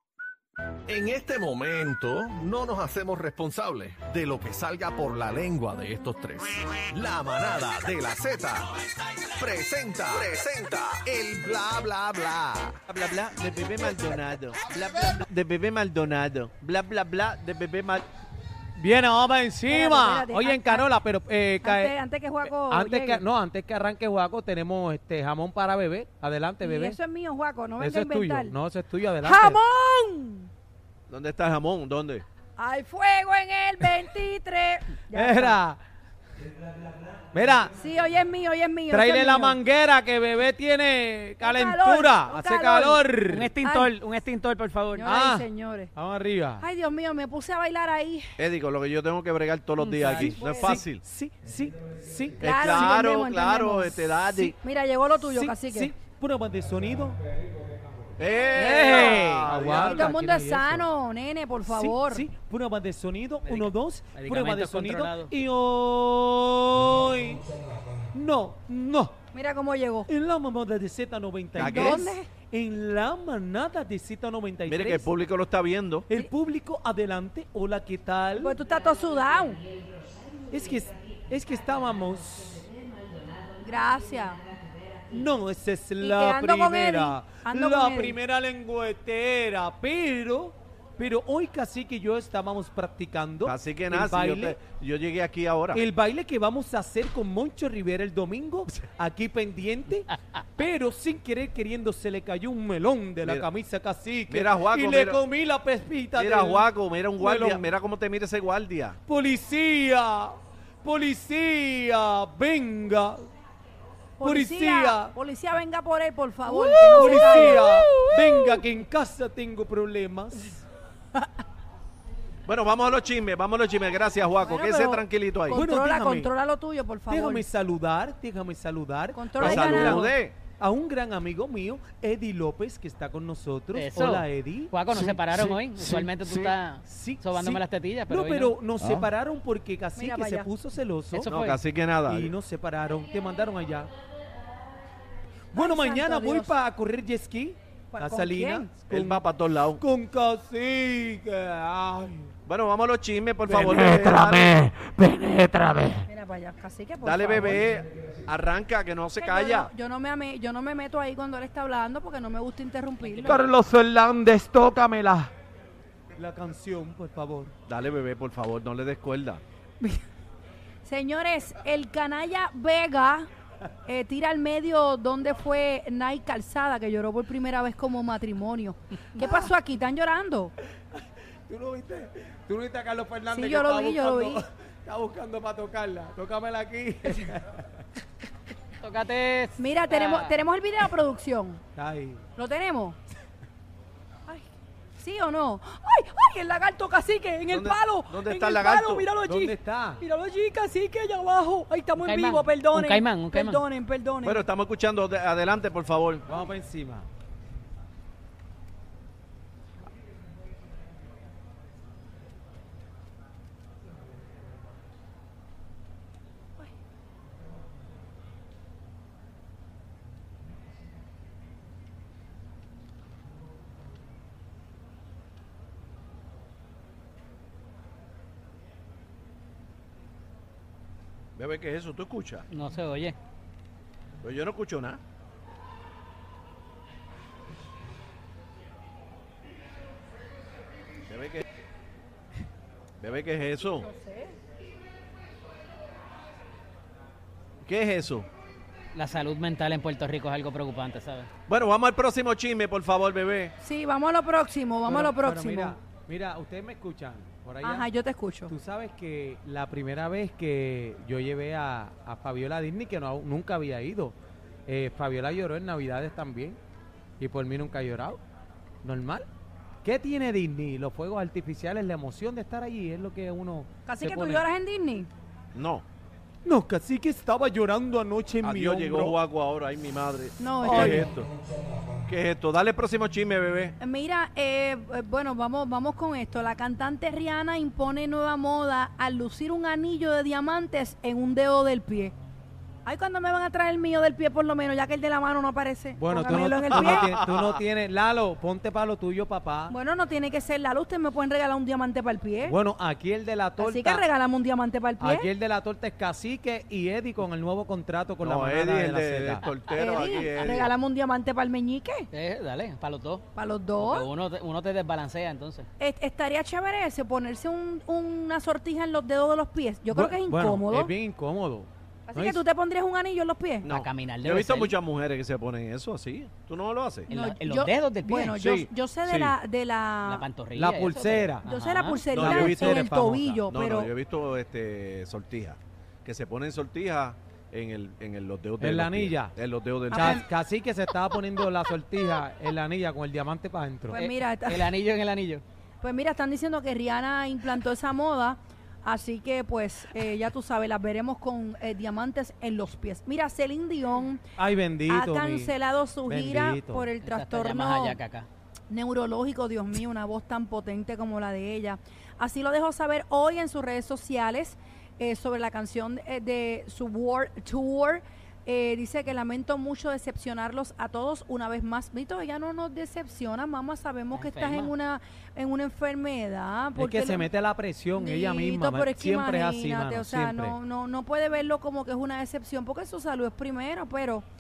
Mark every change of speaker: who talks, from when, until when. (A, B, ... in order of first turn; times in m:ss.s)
0:00.9-0:08.7 A
0:09.3-0:12.8 A
0:12.9-0:18.0 B
0:18.8-0:21.9 C
0:19.7-0:20.8 D
0:21.6-0:23.2 D
0:22.5-0:27.0 C
0:26.6-0:28.6 D
0:27.8-0:29.6 C
0:29.2-0:30.5 D
0:31.1-0:32.2 B
0:32.6-0:35.6 D
0:35.1-0:35.8 C
0:37.3-0:37.8 C
0:37.8-0:39.6 D
0:38.9-0:43.5 C
0:41.4-0:43.0 D
0:43.3-0:45.1 E
0:43.6-0:43.9 D
0:45.0-0:45.9 D
0:45.0-0:46.6 C
0:46.6-0:48.4 D
0:48.4-0:51.0 B
0:49.8-0:50.8 E
0:50.1-0:52.4 C
0:52.4-0:54.6 B
0:52.4-0:55.9 D
0:55.2-0:57.2 C
0:58.2-1:00.1 B
0:58.6-0:59.5 E
0:58.6-1:00.9 C
1:00.0-1:02.2 D
1:01.7-1:07.5 C
1:03.4-1:05.3 E
1:08.1-1:09.2 C
1:09.3-1:10.1 D
1:10.1-1:15.1 C
1:11.6-1:12.1 B
1:11.6-1:12.3 D
1:14.7-1:16.1 B
1:16.1-1:18.6 C
1:18.4-1:19.6 D
1:20.5-1:22.7 C
1:23.6-1:24.4 D
1:25.1-1:34.6 C
1:26.0-1:28.2 D
1:33.4-1:35.8 B
1:35.7-1:46.7 C
1:44.3-1:45.2 B
1:46.2-1:49.0 B
1:47.2-1:47.7 C
1:49.1-1:53.2 C
1:54.2-1:57.7 D
1:54.2-1:55.1 C
1:56.5-2:00.6 C
2:02.5-2:05.6 B
2:04.4-2:07.4 D
2:05.5-2:06.3 C
2:07.1-2:14.8 C
2:09.2-2:10.0 D
2:09.4-2:10.4 B
2:13.7-2:18.6 E
2:16.8-2:21.3 C
2:20.0-2:20.5 D
2:21.1-2:21.6 E
2:21.3-2:22.3 B
2:22.0-2:23.9 C
2:25.5-2:29.2 C
2:25.6-2:26.5 D
2:27.9-2:28.8 D
2:28.9-2:29.8 B
2:29.8-2:32.3 C
2:32.5-2:34.6 B
2:33.5-2:36.1 C
2:36.1-2:37.6 D
2:37.0-2:39.7 B
2:39.2-2:43.4 D
2:43.0-2:43.4 E
2:43.2-2:45.3 C
2:46.2-2:47.5 C
2:47.7-2:49.4 B
2:49.8-2:50.0 D
2:50.8-2:53.3 D
2:53.9-3:00.5 D
3:01.5-3:07.6 C
3:03.3-3:04.4 D
3:08.8-3:10.4 E
3:09.6-3:11.6 D
3:11.8-3:12.2 C
3:12.4-3:13.0 D
3:15.0-3:24.4 D
3:17.5-3:19.1 B
3:19.2-3:20.0 C
3:22.0-3:23.6 E
3:24.2-3:26.3 B
3:26.3-3:27.1 C
3:51.4-3:52.4 B
3:52.5-3:53.2 E
3:54.2-3:55.0 B
4:01.1-4:01.4 B
4:03.0-4:03.9 B
4:03.8-4:04.4 D
4:07.6-4:08.3 B
4:08.9-4:11.3 E
4:11.5-4:13.6 B
4:13.6-4:15.8 D
4:14.9-4:17.9 C
4:17.6-4:18.5 D
4:18.5-4:24.2 C
4:24.7-4:26.6 C
4:27.2-4:28.2 C
4:28.8-4:29.3 C
4:29.8-4:34.4 C
4:33.9-4:35.1 D
4:35.5-4:35.8 B
4:36.4-4:39.2 C
4:38.4-4:41.3 B
4:40.4-4:41.0 D
4:40.6-4:41.1 C
4:42.1-4:43.8 B
4:43.8-4:52.2 D
4:52.8-4:57.0 D
4:56.0-4:59.7 C
4:56.8-4:57.6 B
4:59.7-5:02.6 D
5:02.4-5:04.0 C
5:03.6-5:05.3 D
5:05.0-5:09.5 C
5:08.2-5:10.7 B
5:09.8-5:12.1 D
5:12.1-5:15.7 E
5:13.4-5:14.1 D
5:15.8-5:20.9 D
5:19.9-5:22.4 C
5:22.1-5:23.7 D
5:23.6-5:27.1 B
5:23.6-5:24.8 E
5:27.1-5:28.4 E
5:27.2-5:30.3 D
5:28.4-5:29.4 B
5:30.0-5:32.1 E
5:30.5-5:31.5 C
5:31.5-5:33.9 D
5:32.1-5:33.0 B
5:32.2-5:33.4 C
5:33.5-5:40.2 B
5:38.6-5:39.4 C
5:39.9-5:44.0 C
5:39.9-5:40.2 D
5:43.9-5:45.4 E
5:43.9-5:44.7 D
5:45.8-5:54.2 D
5:54.4-5:55.6 C
5:54.9-5:58.0 D
5:56.1-5:56.9 C
5:57.0-5:58.3 E
5:58.7-6:17.3 D
6:14.1-6:14.7 E
6:16.8-6:20.6 C
6:18.0-6:24.3 D